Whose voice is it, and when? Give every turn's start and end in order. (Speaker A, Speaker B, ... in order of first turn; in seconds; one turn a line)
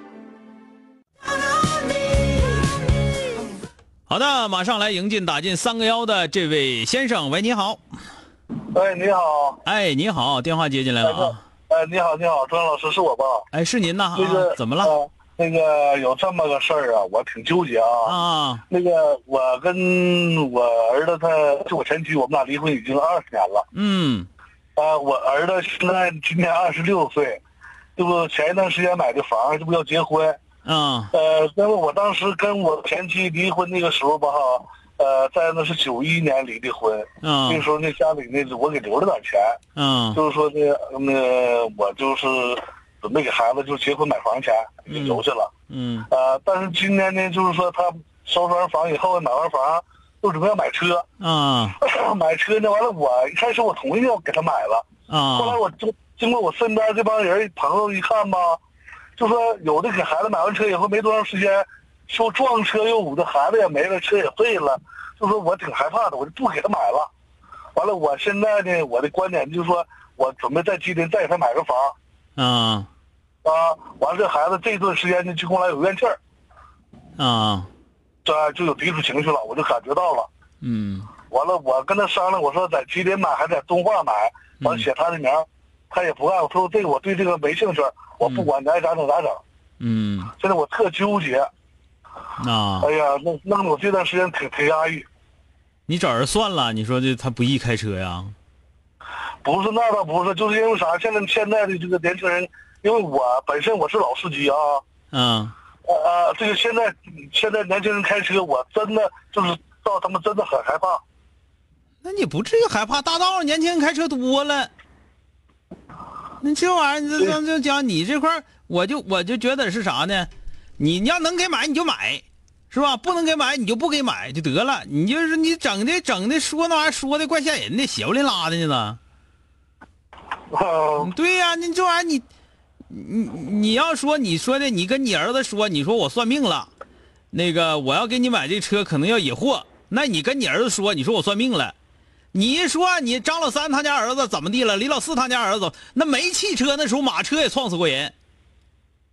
Speaker A: 4.1-7.8
Speaker B: 8.7-9.6
Speaker A: 9.6-11.4
Speaker B: 11.0-13.5
Speaker A: 13.5-14.9
Speaker B: 14.2-18.1
Speaker A: 18.0-18.6
Speaker B: 18.7-23.6
Speaker A: 23.7-24.3
Speaker B: 24.8-27.4
Speaker B: 28.0-30.4
Speaker A: 30.6-31.1
Speaker B: 31.1-39.6
Speaker A: 37.2-37.6
Speaker A: 39.8-40.2
Speaker B: 40.1-45.5
Speaker A: 44.9-46.1
Speaker B: 46.1-51.0
Speaker A: 51.2-51.8
Speaker B: 51.8-58.6
Speaker A: 55.1-55.6
Speaker B: 59.2-67.1
Speaker B: 67.8-71.9
Speaker A: 72.4-72.9
Speaker B: 73.4-76.2
Speaker A: 77.2-77.7
Speaker B: 78.2-80.3
Speaker A: 80.6-81.1
Speaker B: 81.3-89.4
Speaker A: 84.6-84.8
Speaker A: 88.2-88.5
Speaker A: 89.8-90.3
Speaker B: 90.4-91.5
Speaker A: 92.4-92.9
Speaker B: 92.8-95.0
Speaker A: 95.9-98.3
Speaker B: 99.4-104.8
Speaker A: 105.1-105.5
Speaker B: 105.8-111.0
Speaker A: 112.0-114.7
Speaker A: 116.4-129.0
Speaker B: 130.5-131.1
Speaker A: 131.0-132.2
Speaker A: 132.9-136.7
Speaker A: 137.3-141.7
Speaker A: 142.3-148.1